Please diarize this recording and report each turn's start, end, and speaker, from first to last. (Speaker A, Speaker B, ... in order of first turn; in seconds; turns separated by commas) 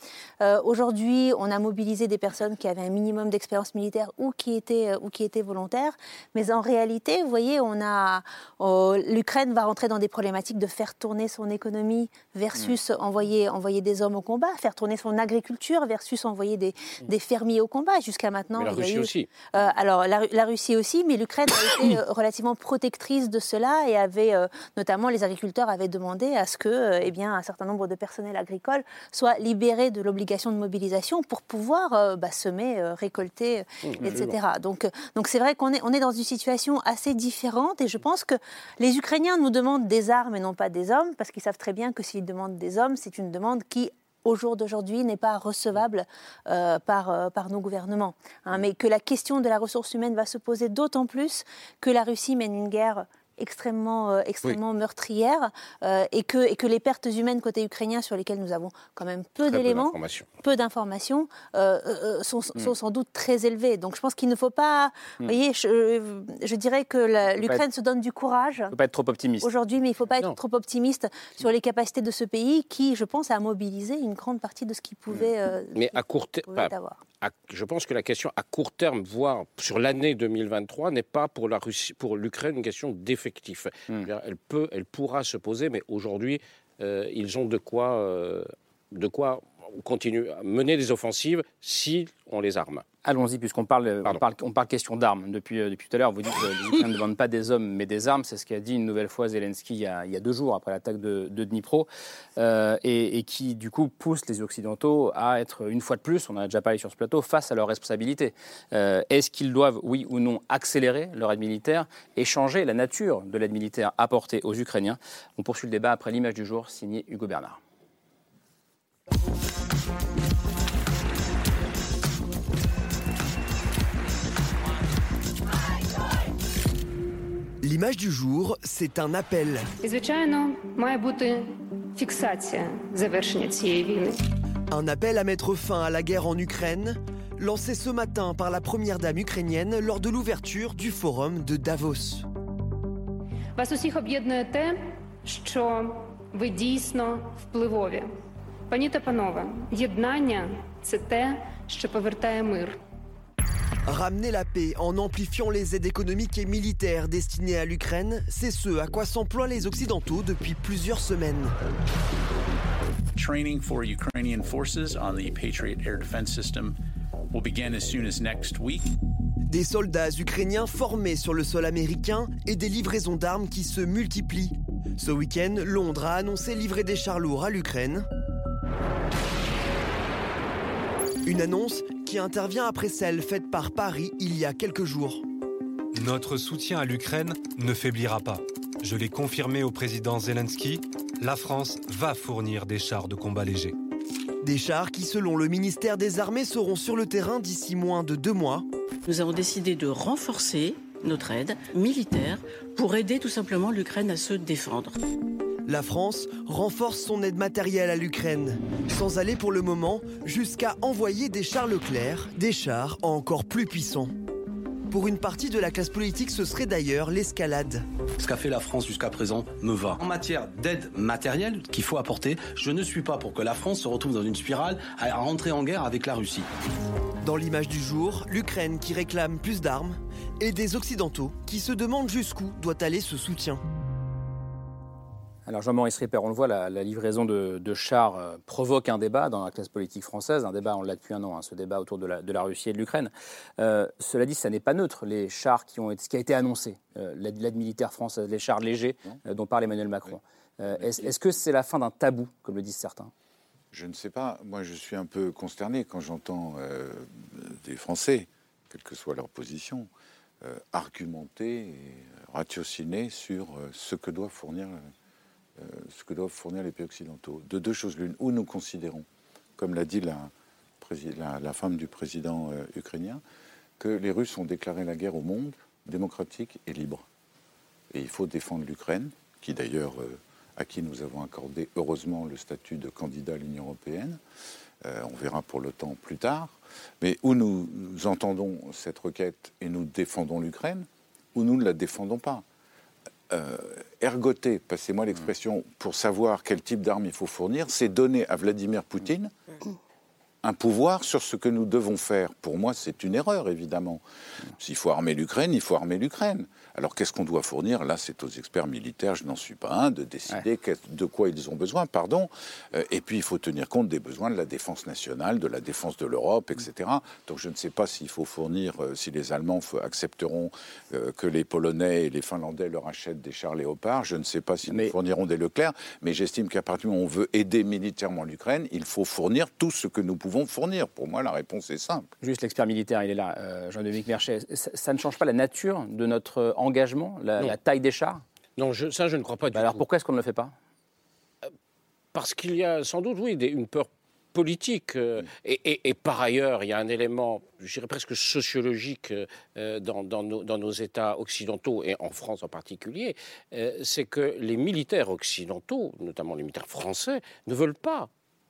Speaker A: 0.4-68.7, Speaker B: 18.6-19.3, Speaker B: 33.8-34.3, Speaker B: 59.5-60.2, Speaker C: 68.7-69.5, Speaker A: 69.4-77.0, Speaker B: 75.7-92.8, Speaker C: 93.0-117.6, Speaker D: 127.6-129.7, Speaker E: 129.8-134.2, Speaker D: 134.7-142.3, Speaker E: 143.6-148.1, Speaker E: 148.7-152.8, Speaker D: 153.9-161.5, Speaker F: 163.2-166.8, Speaker F: 167.3-168.9, Speaker D: 169.5-178.1, Speaker D: 181.2-185.2, Speaker G: 185.9-193.8, Speaker D: 194.4-198.6, Speaker H: 199.0-204.9, Speaker D: 205.7-214.1, Speaker D: 214.9-217.8, Speaker I: 218.2-226.5, Speaker D: 227.2-233.6, Speaker C: 235.4-253.1, Speaker J: 250.7-251.2, Speaker J: 253.7-259.9, Speaker J: 260.4-264.8, Speaker J: 265.6-269.0, Speaker J: 269.6-273.2, Speaker J: 273.8-277.0, Speaker J: 277.9-284.2, Speaker J: 284.8-292.4, Speaker J: 293.3-299.3, Speaker J: 300.4-304.0, Speaker J: 304.6-332.1, Speaker C: 324.7-324.9, Speaker C: 332.2-338.2, Speaker B: 338.6-339.8, Speaker C: 339.5-340.5, Speaker B: 342.1-358.1